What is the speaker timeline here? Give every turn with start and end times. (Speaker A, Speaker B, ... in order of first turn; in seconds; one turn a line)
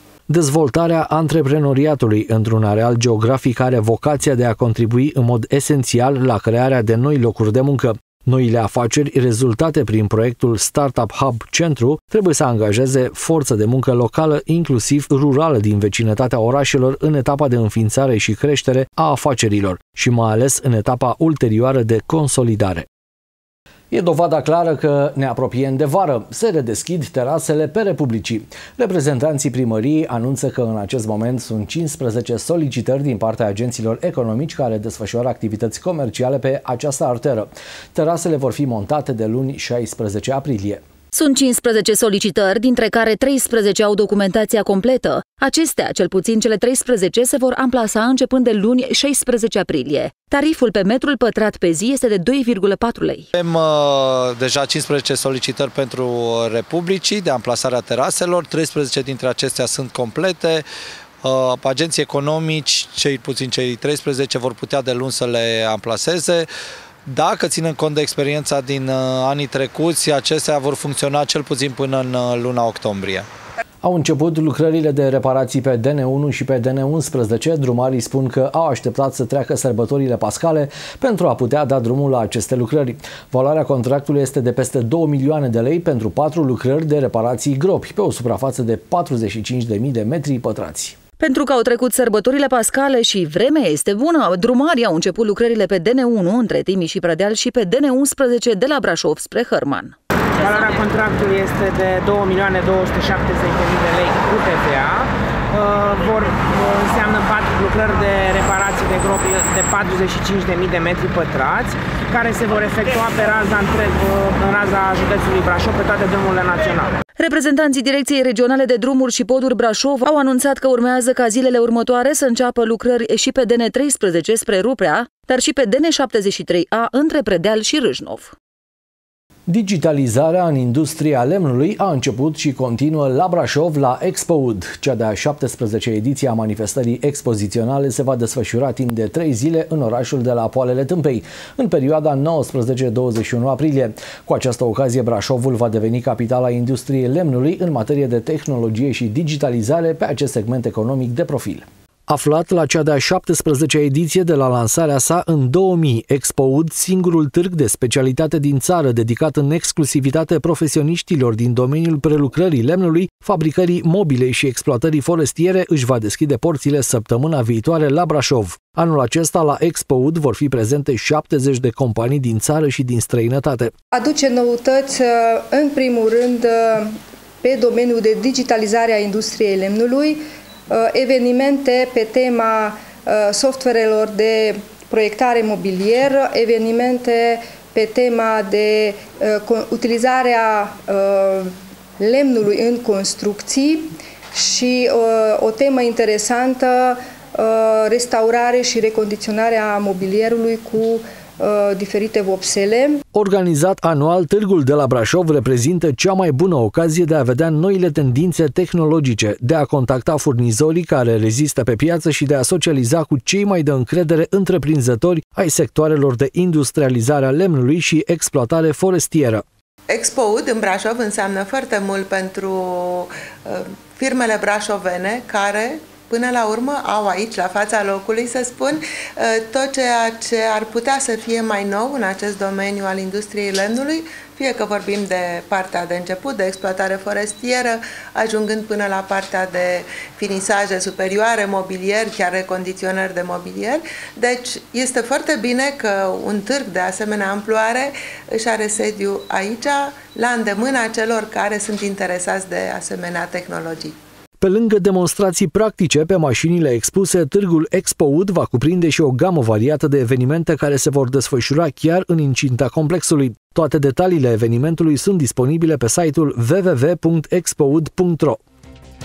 Speaker A: 0.3-22.9
Speaker A: 23.9-40.8
Speaker B: 41.1-53.3
Speaker C: 53.3-60.7
Speaker C: 61.2-66.5
Speaker C: 67.0-73.3
Speaker A: 73.8-91.0
Speaker B: 91.2-99.9
Speaker D: 100.4-117.0
Speaker B: 117.2-128.3
Speaker A: 129.5-173.7
Speaker E: 173.9-203.0
Speaker A: 203.1-219.4
Speaker F: 219.9-253.9
Speaker A: 254.4-268.4